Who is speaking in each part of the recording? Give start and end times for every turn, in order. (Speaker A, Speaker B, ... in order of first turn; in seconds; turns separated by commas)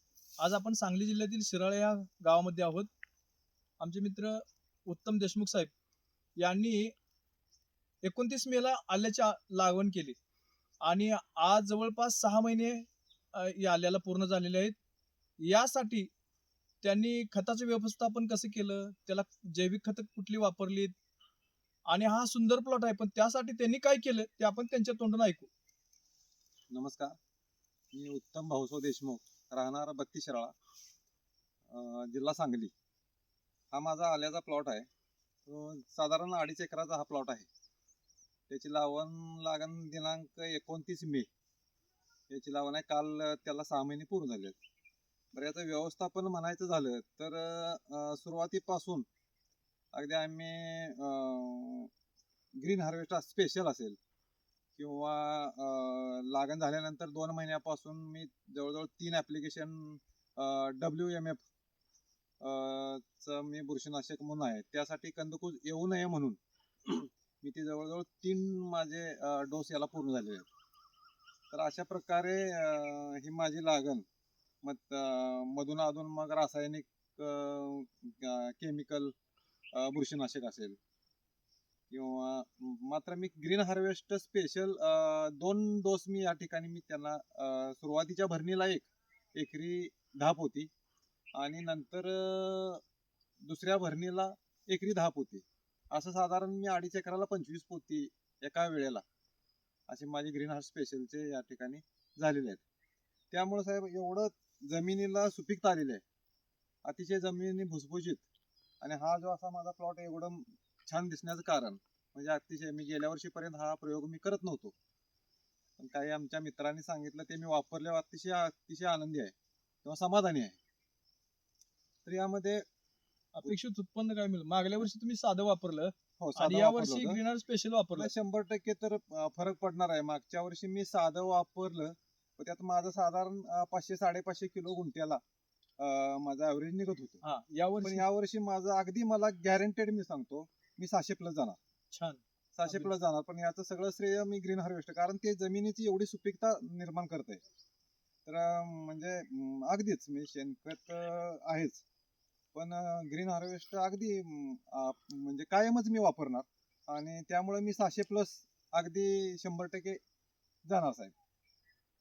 Speaker A: 0.4-2.9, Speaker A: 3.8-5.7, Speaker A: 6.4-7.0, Speaker A: 8.0-10.2, Speaker A: 10.8-14.7, Speaker A: 15.4-16.1, Speaker A: 16.8-20.9, Speaker A: 21.9-25.5, Speaker B: 26.7-27.2, Speaker B: 27.9-30.5, Speaker B: 31.7-32.7, Speaker B: 33.7-34.9, Speaker B: 35.5-37.5, Speaker B: 38.5-41.3, Speaker B: 42.3-44.6, Speaker B: 45.3-49.0, Speaker B: 49.9-51.9, Speaker B: 52.6-54.0, Speaker B: 54.8-61.4, Speaker B: 62.4-70.5, Speaker B: 71.5-74.0, Speaker B: 74.6-79.1, Speaker B: 79.7-80.8, Speaker B: 81.9-90.7, Speaker B: 91.4-92.8, Speaker B: 93.5-99.0, Speaker B: 99.9-102.6, Speaker B: 103.3-106.0, Speaker B: 106.8-108.2, Speaker B: 108.8-114.8, Speaker B: 115.8-120.6, Speaker B: 122.0-122.6, Speaker A: 123.3-128.1, Speaker B: 126.2-127.2, Speaker B: 128.0-135.2, Speaker B: 135.8-137.2, Speaker A: 137.2-138.1, Speaker B: 137.8-141.6, Speaker A: 141.9-142.9, Speaker B: 142.6-147.4, Speaker B: 148.2-151.8, Speaker B: 152.5-160.0, Speaker B: 160.7-161.1